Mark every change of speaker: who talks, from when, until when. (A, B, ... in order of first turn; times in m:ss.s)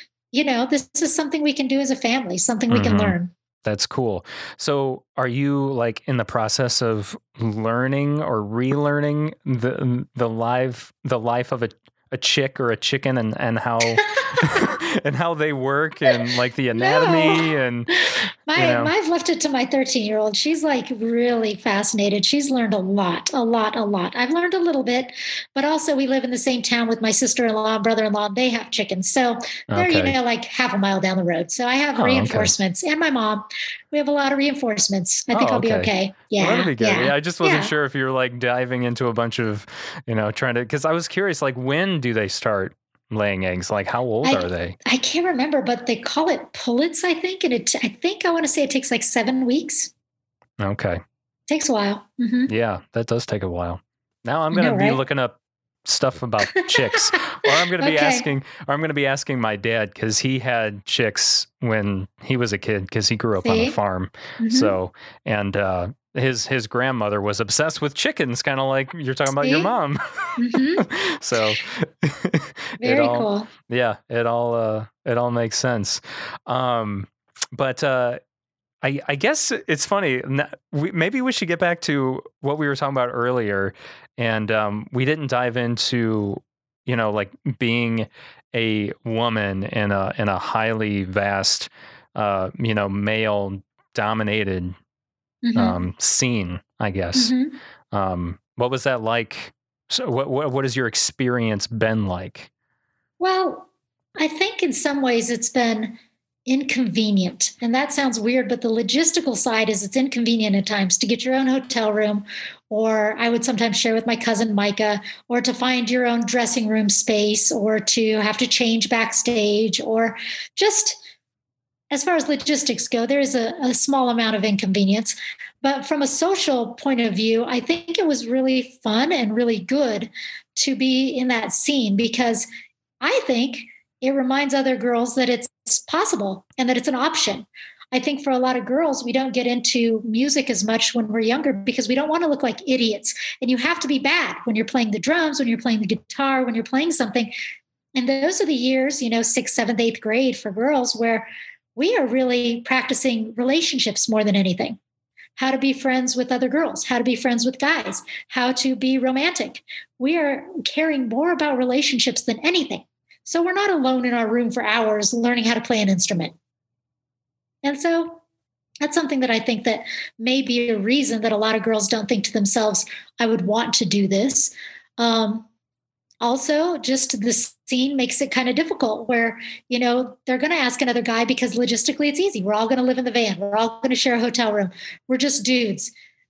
0:00.3-0:03.3 A
0:02.7-0:18.9 B
0:13.9-0:14.6 A
0:16.8-0:17.5 A
0:18.5-0:37.7 A
0:29.7-0:30.2 B
0:32.0-0:32.5 B
0:35.3-0:44.8 B
0:44.2-0:49.9 A
0:50.6-0:51.0 B
0:51.5-0:52.5 A
0:52.5-1:10.0 B
0:54.5-0:55.0 A
0:56.6-0:58.3 A
1:03.4-1:03.8 A
1:04.4-1:04.8 A
1:09.4-1:09.7 A
1:10.4-1:10.9 A
1:10.8-1:18.2 B
1:12.8-1:13.5 A
1:18.8-1:34.8 B
1:35.4-1:35.8 A
1:35.6-1:37.3 B
1:37.1-1:37.6 A
1:37.9-1:42.5 B
1:43.2-2:01.0 A
2:01.9-2:12.5 A
2:13.0-2:27.3 A
2:27.9-2:34.8 A
2:35.4-2:46.4 A
2:47.6-2:48.2 A
2:48.8-2:55.5 A
2:56.2-3:05.9 A